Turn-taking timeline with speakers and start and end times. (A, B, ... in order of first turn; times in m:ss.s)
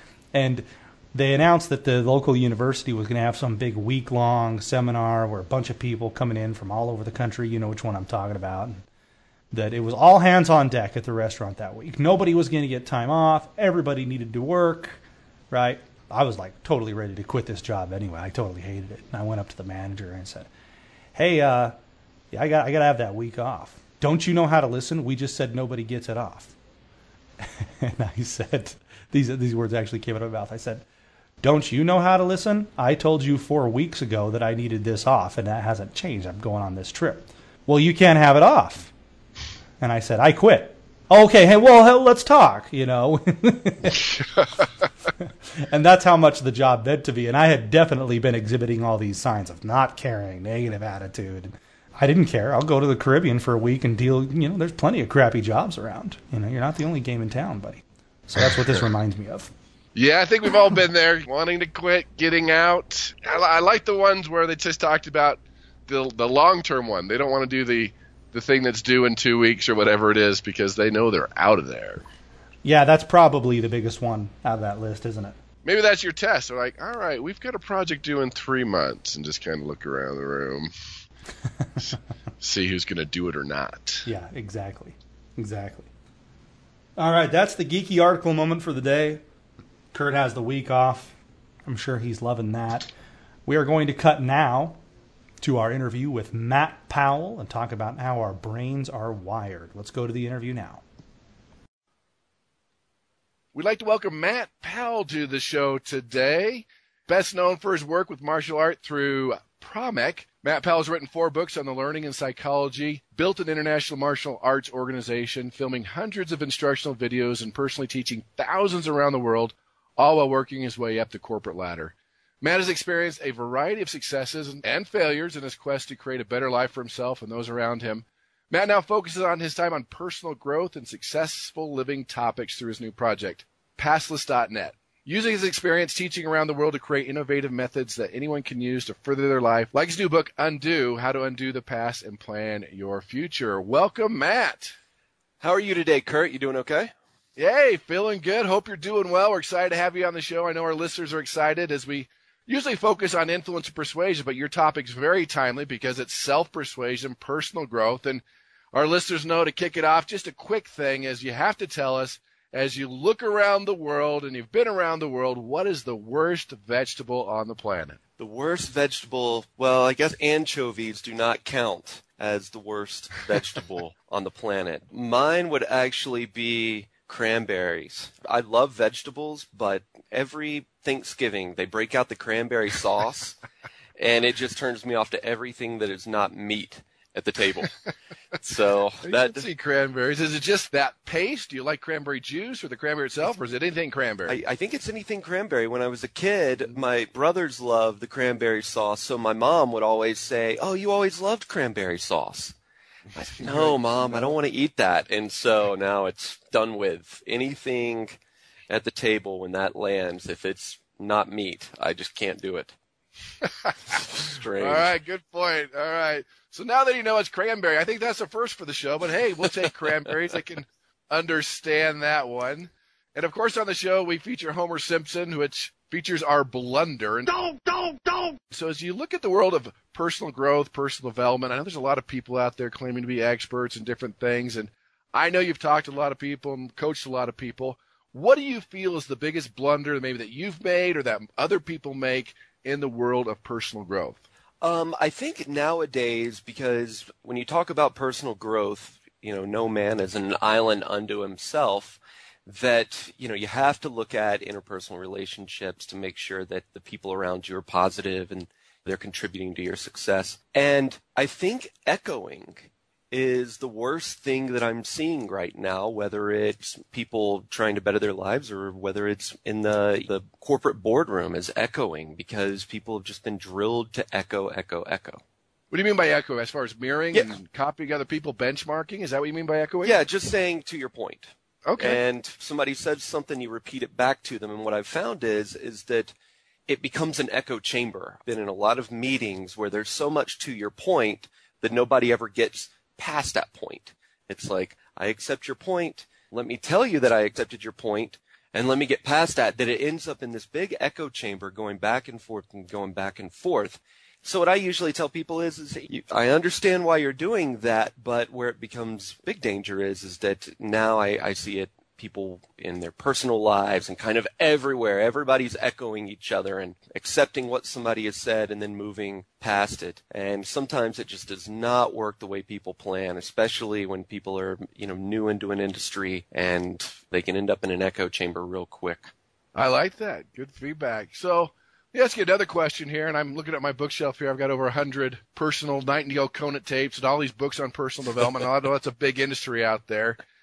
0:00.3-0:08.8 A
0:09.5-0:20.5 A
0:21.1-0:21.7 A
0:22.3-0:26.6 A
0:27.4-0:30.8 A
0:31.4-0:38.9 A
0:39.8-0:44.2 A
0:45.2-0:59.5 A
0:59.9-1:12.0 B
1:12.6-1:15.4 A
1:15.6-1:20.7 B
1:22.4-1:24.0 B
1:24.0-1:25.9 A
1:27.0-1:29.2 A
1:29.9-1:32.9 A
1:33.4-1:34.8 A
1:35.4-1:40.8 A
1:43.5-2:24.7 B
2:25.4-2:26.9 C
2:27.4-2:48.0 B
2:48.2-3:03.4 C
3:04.0-3:07.8 C
3:08.4-3:09.5 C
3:09.0-3:14.4 B
3:14.2-3:22.6 C
3:23.1-3:32.8 C
3:23.4-3:24.3 B
3:33.4-3:33.7 B
3:33.9-3:34.9 C
3:34.6-4:04.2 B
4:04.6-4:35.2 C
4:35.7-4:40.0 B
4:39.8-4:46.1 C
4:41.6-4:42.0 B
4:46.7-5:29.1 C
5:29.5-5:40.2 B